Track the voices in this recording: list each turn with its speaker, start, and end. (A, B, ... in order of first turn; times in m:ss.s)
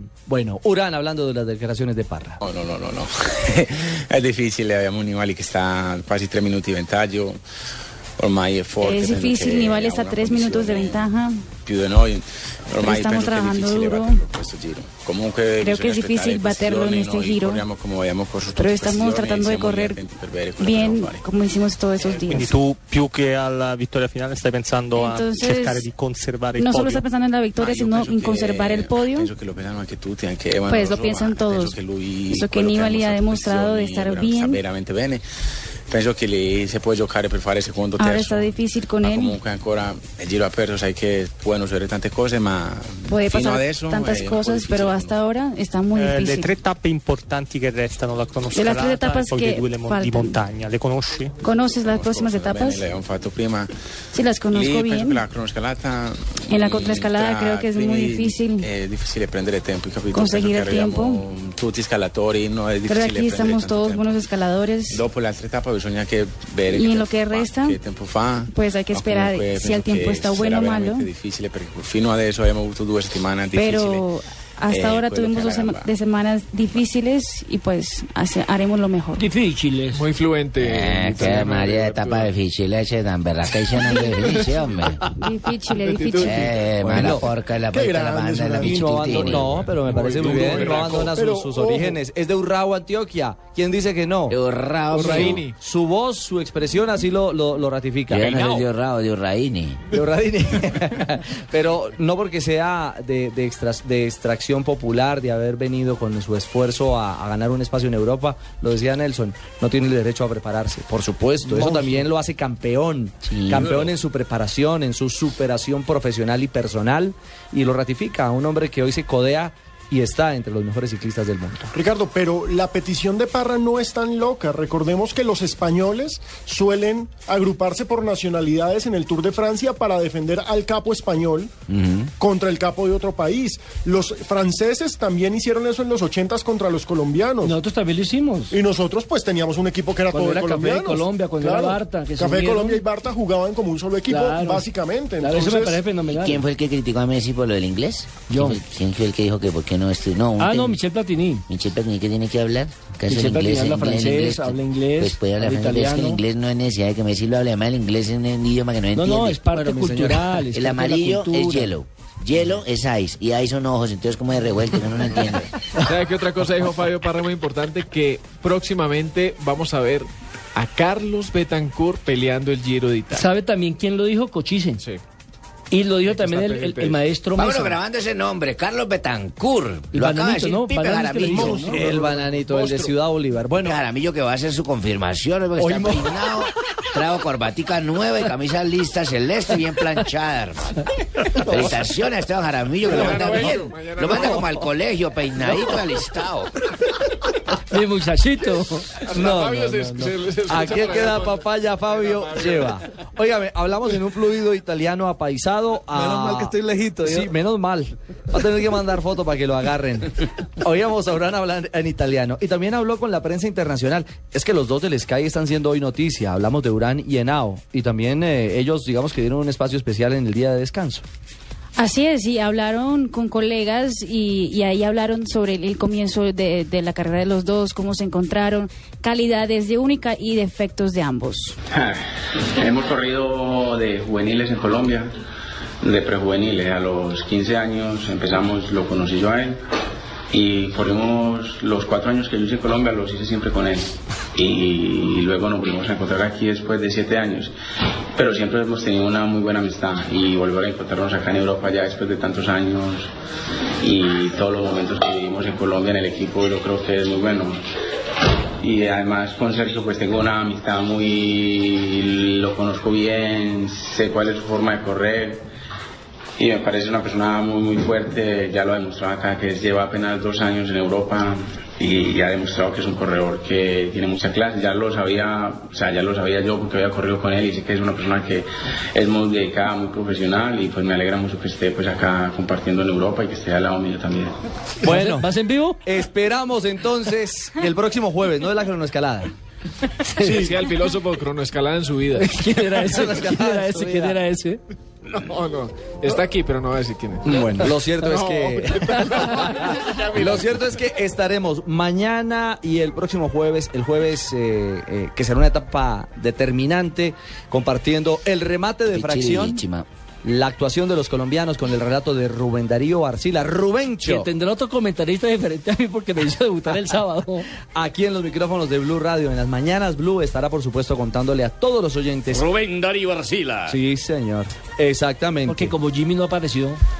0:00.3-0:02.4 A
0:02.4-0:07.4 B
0:08.2-0:11.0 B
0:08.8-0:11.4 C
0:11.6-0:21.2 B
0:12.8-0:14.2 C
0:15.6-0:17.6 C
0:18.5-0:20.0 C
0:20.6-0:22.6 C
0:22.1-0:27.0 D
0:24.9-0:25.9 C
0:26.6-0:29.3 C
0:27.6-0:35.2 B
0:30.7-0:31.8 C
0:32.3-0:34.6 C
0:35.9-0:45.1 B
0:38.0-0:39.4 C
0:43.1-0:46.5 C
0:45.9-0:51.4 D
0:48.5-0:50.4 C
0:51.4-0:52.9 C
0:51.8-0:53.7 B
0:54.1-0:55.2 C
0:54.5-1:04.1 B
0:56.5-0:58.7 C
1:00.1-1:01.2 C
1:02.9-1:05.0 C
1:04.9-1:14.0 B
1:06.7-1:07.8 C
1:08.5-1:11.1 C
1:13.5-1:19.3 C
1:14.7-1:15.8 B
1:19.2-1:20.0 E
1:19.9-1:22.3 F
1:20.6-1:25.0 G
1:23.8-1:27.1 F
1:25.2-1:26.5 C
1:26.2-1:29.6 G
1:26.9-1:27.3 A
1:27.7-1:29.2 H
1:28.6-1:34.4 A
1:29.6-1:31.2 F
1:31.2-1:32.0 H
1:34.3-1:35.4 G
1:34.9-1:35.5 F
1:35.0-1:38.7 A
1:38.1-1:39.8 G
1:39.9-2:01.7 A
1:51.5-1:51.8 G
1:53.2-1:53.7 G
1:53.6-1:53.9 F
2:01.8-2:11.5 H
2:11.7-2:12.1 G
2:12.2-2:17.5 H
2:17.4-2:18.6 E
2:18.5-2:25.7 H
2:20.1-2:22.9 E
2:24.0-2:26.4 E
2:26.0-2:30.8 G
2:28.3-2:28.6 E
2:30.4-2:31.4 E
2:31.5-2:45.5 G
2:33.1-2:36.2 E
2:38.9-2:41.8 E
2:39.7-2:40.2 A
2:45.8-2:53.3 F
2:53.1-2:54.8 E
2:55.7-2:57.8 E
2:56.0-2:57.0 F
2:57.3-3:01.8 G
2:59.9-3:01.8 E
3:01.6-3:03.8 A
3:01.8-3:02.9 F
3:03.6-3:16.5 G
3:05.6-3:06.3 A
3:12.8-3:14.7 F
3:17.6-3:19.0 E
3:18.9-3:22.8 F
3:19.1-3:41.0 A
3:41.8-3:51.6 C
3:52.6-3:55.1 B
3:55.8-3:59.6 B
4:00.3-4:07.5 B
4:08.2-4:13.1 B
4:13.8-4:17.6 B
4:18.6-4:25.4 B
4:26.4-4:38.4 B
4:39.0-4:44.3 B
4:44.8-4:45.3 A
4:44.8-4:45.8 E
4:45.8-4:49.3 A
4:50.0-4:50.5 E
4:50.2-4:52.5 F
4:52.1-4:54.6 E
4:52.6-4:54.2 A
4:55.0-5:00.5 F
4:57.2-5:09.6 A
5:08.9-5:09.9 G
5:10.2-5:14.3 A
5:14.0-5:17.5 E
5:17.6-5:22.5 A
5:22.3-5:23.8 G
5:23.6-5:25.8 A
5:25.4-5:26.8 E